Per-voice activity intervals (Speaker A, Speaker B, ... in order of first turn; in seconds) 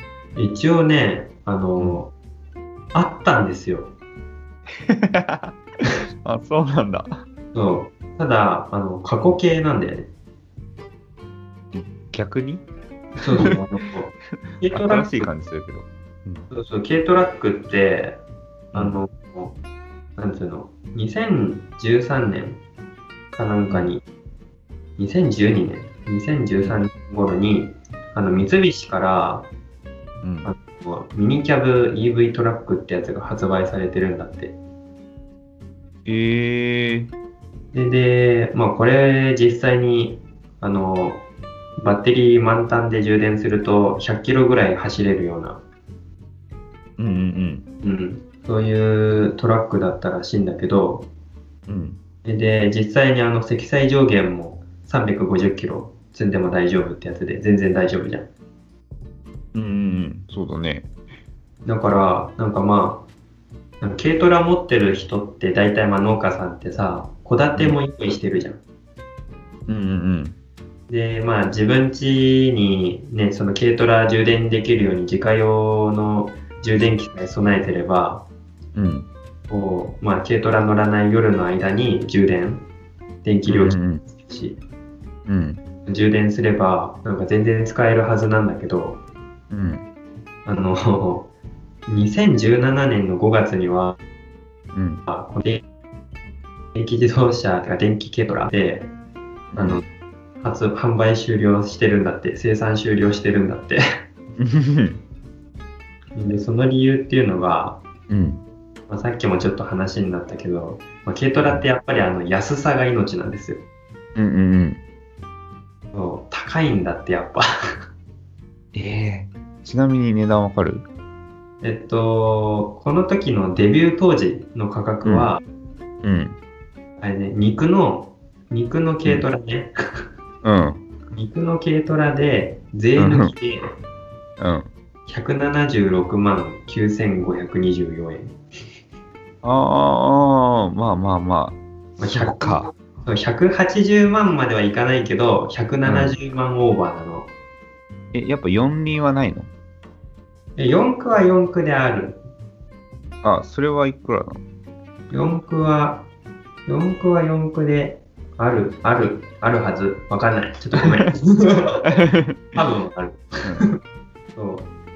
Speaker A: 0.4-2.1, 2.9-3.9, 7.5-10.1, 13.2-15.3, 16.5-18.2, 18.7-19.6, 20.2-22.6, 23.3-24.0, 25.0-29.5, 30.4-34.6, 37.7-41.2, 41.8-45.6, 47.8-51.1, 52.2-58.3, 61.7-63.1, 63.8-68.6, 70.9-78.3, 79.5-82.7, 83.2-84.6, 85.9-89.0, 90.5-91.3, 91.9-94.0, 95.1-95.6, 96.8-98.9, 99.6-99.8, 100.4-103.8, 106.2-107.8, 108.9-113.6, 115.9-117.5, 121.6-125.4, 127.0-129.7, 131.1-133.7, 135.1-138.4, 142.0-147.3, 150.6-152.2, 155.1-156.1, 156.7-161.9, 162.6-163.8, 164.3-164.7
Speaker B: 4.8-5.6, 6.2-7.2, 11.7-12.7, 14.7-16.5, 18.7-19.0, 23.7-23.9, 30.2-30.5, 36.1-37.1, 47.0-47.7, 51.7-52.0, 59.5-60.9, 69.7-70.4, 78.8-79.1, 83.5-84.0, 85.3-85.6, 89.5-89.9, 94.7-95.0, 99.5-99.8, 104.4-105.0, 108.1-108.4, 114.2-114.8, 118.7-120.9, 125.0-125.3, 126.0-126.4, 130.4-130.8, 133.0-133.3, 134.4-134.7, 139.4-142.7, 145.8-146.2, 148.1-149.5, 153.2-154.4, 161.8-162.6